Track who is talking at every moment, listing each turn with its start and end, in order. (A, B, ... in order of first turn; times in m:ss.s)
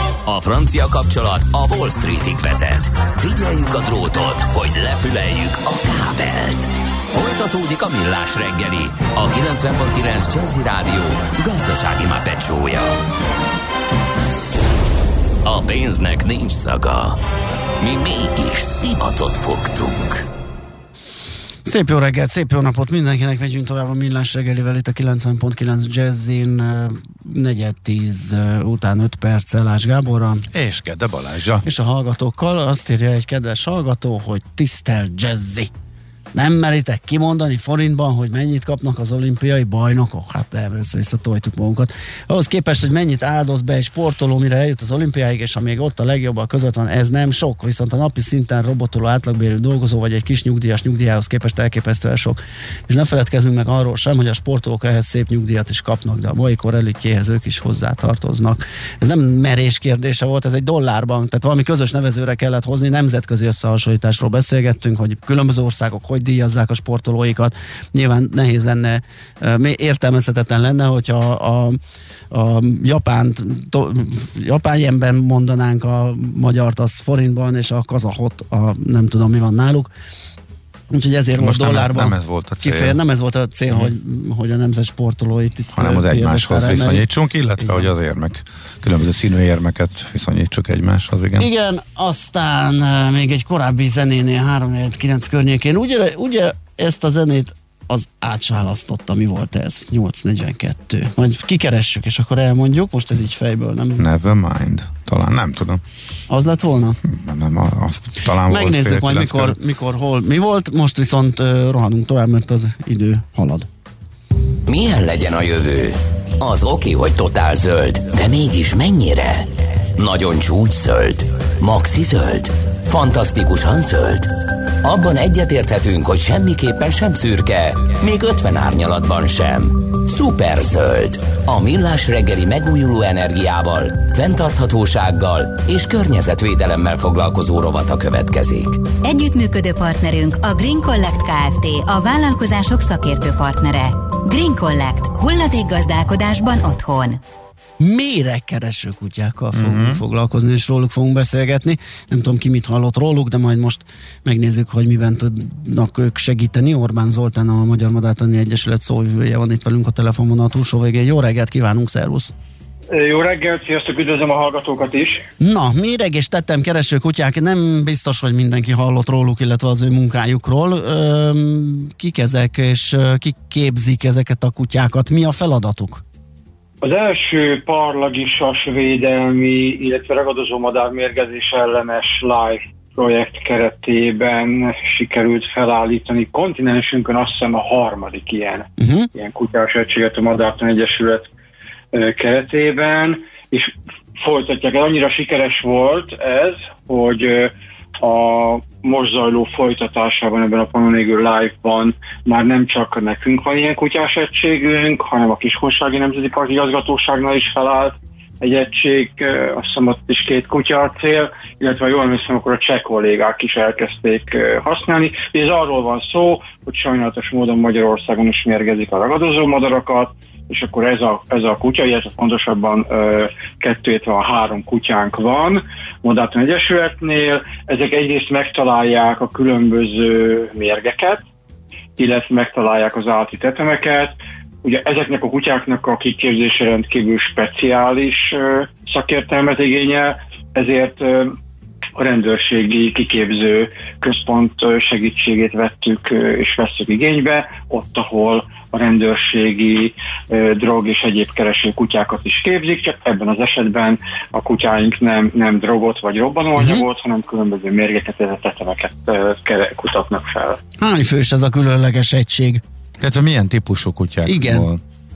0:00.2-0:12.9 A
0:15.4-0:17.2 A
0:17.8-0:20.2 A
0:21.6-0:30.4 B
0:30.5-0:31.6 C
0:31.6-0:35.7 B
0:36.3-1:11.8 B
1:12.3-1:19.9 B
1:20.9-1:27.1 B
1:21.4-1:23.0 C
1:25.7-1:31.5 C
1:27.6-1:27.9 B
1:31.4-1:44.0 B
1:44.0-1:45.8 C
1:46.3-1:47.0 B
1:47.1-1:49.6 C
1:48.4-1:53.7 B
1:54.7-2:18.8 A
2:19.0-2:27.2 D
2:27.8-2:42.3 B
2:29.5-2:30.0 C
2:42.9-2:45.2 E
2:45.4-2:56.0 B
2:56.8-3:11.3 E
3:08.8-3:09.1 B
3:11.9-3:51.2 E
3:52.0-4:01.4 E
4:02.0-4:20.6 E
4:16.6-4:16.8 B
4:20.8-4:22.6 B
4:23.0-4:24.8 C
4:24.2-4:24.7 B